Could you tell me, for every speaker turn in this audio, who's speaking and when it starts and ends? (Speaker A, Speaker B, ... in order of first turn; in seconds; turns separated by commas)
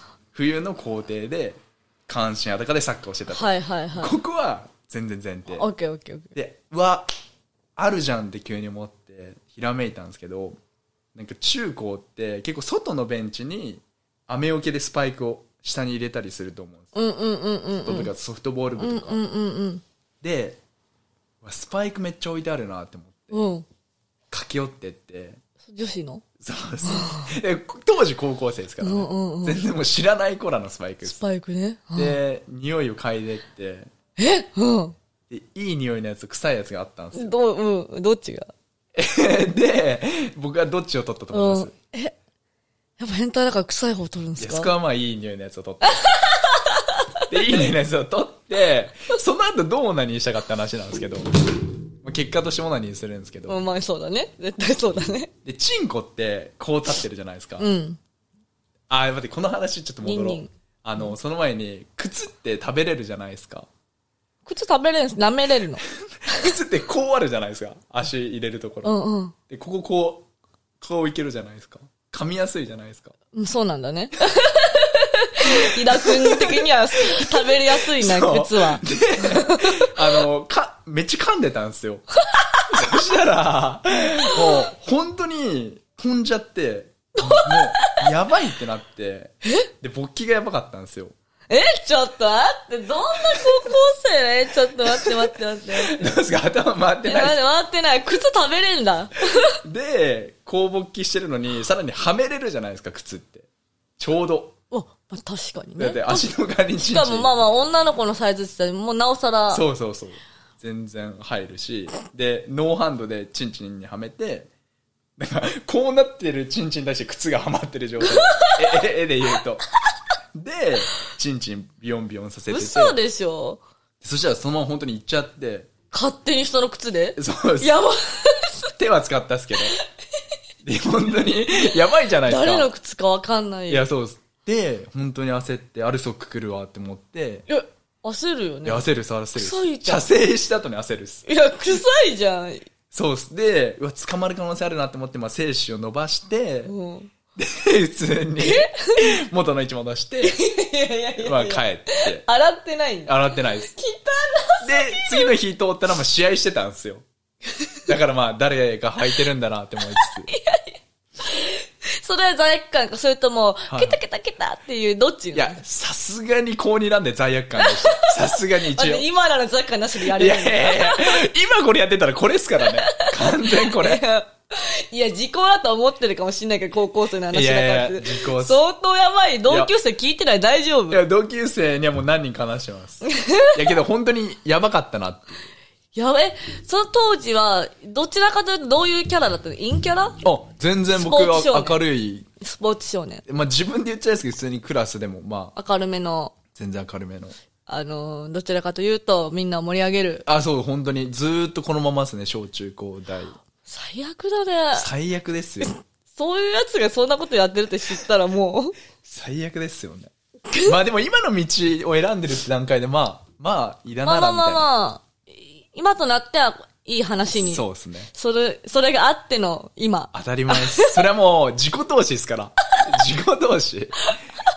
Speaker A: 0.3-5.7, Speaker B: 3.3-4.2, Speaker B: 5.5-6.3, Speaker A: 6.3-7.1, Speaker A: 7.8-10.6, Speaker A: 11.1-16.9, Speaker B: 16.9-18.1, Speaker A: 17.8-19.2, Speaker B: 18.8-19.8, Speaker A: 20.2-20.6, Speaker A: 21.4-23.4, Speaker B: 23.3-23.6, Speaker A: 24.3-25.4, Speaker B: 25.7-26.2, Speaker A: 26.4-31.2, Speaker B: 26.8-27.3, Speaker B: 28.8-29.6, Speaker B: 31.0-32.2, Speaker A: 31.9-33.9, Speaker B: 34.2-35.0, Speaker A: 35.3-37.3, Speaker B: 37.1-38.5, Speaker A: 38.9-41.7, Speaker B: 41.3-42.1, Speaker B: 43.0-44.7, Speaker A: 44.4-46.1, Speaker B: 45.8-47.6, Speaker A: 47.3-53.6, Speaker B: 53.5-55.3, Speaker A: 55.4-57.7, Speaker B: 57.6-58.0, Speaker A: 58.9-63.7, Speaker B: 60.0-61.1, Speaker B: 64.5-66.5, Speaker A: 66.0-68.9, Speaker B: 68.8-69.3, Speaker A: 69.5-70.3, Speaker A: 70.8-73.1, Speaker B: 73.3-79.9, Speaker A: 75.6-82.0, Speaker B: 82.3-82.6, Speaker A: 82.7-91.1, Speaker B: 84.3-84.6, Speaker B: 87.2-88.0, Speaker B: 91.5-96.1, Speaker A: 95.8-97.4, Speaker B: 97.0-99.6, Speaker A: 99.5-103.5, Speaker A: 104.0-104.5, Speaker B: 104.7-109.6, Speaker A: 105.8-107.3, Speaker A: 109.5-114.5, Speaker A: 115.2-119.6, Speaker B: 118.0-118.8, Speaker A: 120.3-123.0, Speaker B: 122.5-123.6, Speaker A: 124.0-125.7, Speaker B: 125.9-128.6, Speaker A: 127.2-127.8, Speaker A: 128.7-129.8, Speaker A: 130.6-132.7, Speaker B: 132.2-133.8, Speaker A: 133.7-137.4, Speaker B: 137.5-140.1, Speaker A: 138.6-141.2, Speaker B: 141.2-142.7, Speaker A: 142.9-146.7, Speaker B: 146.7-147.1, Speaker A: 147.3-150.4, Speaker B: 148.4-149.1, Speaker B: 150.2-155.3, Speaker A: 151.2-152.2, Speaker A: 153.1-153.7, Speaker A: 154.6-157.0, Speaker A: 157.9-160.3, Speaker B: 160.0-165.6, Speaker A: 163.7-164.0, Speaker A: 165.3-169.1, Speaker B: 167.6-171.2, Speaker A: 170.0-174.0, Speaker B: 172.6-181.0, Speaker A: 177.3-178.6, Speaker A: 180.9-185.5, Speaker B: 183.0-183.6, Speaker B: 185.9-190.2, Speaker A: 190.2-192.3, Speaker B: 190.9-191.8, Speaker B: 192.4-193.2, Speaker A: 193.3-195.5, Speaker B: 195.5-196.3, Speaker A: 196.5-197.3, Speaker B: 197.7-200.2, Speaker A: 200.2-203.4, Speaker B: 203.6-204.9, Speaker A: 204.7-205.7, Speaker B: 205.6-208.7, Speaker A: 209.0-214.6, Speaker B: 214.0-221.0, Speaker A: 217.3-218.1, Speaker A: 220.1-224.1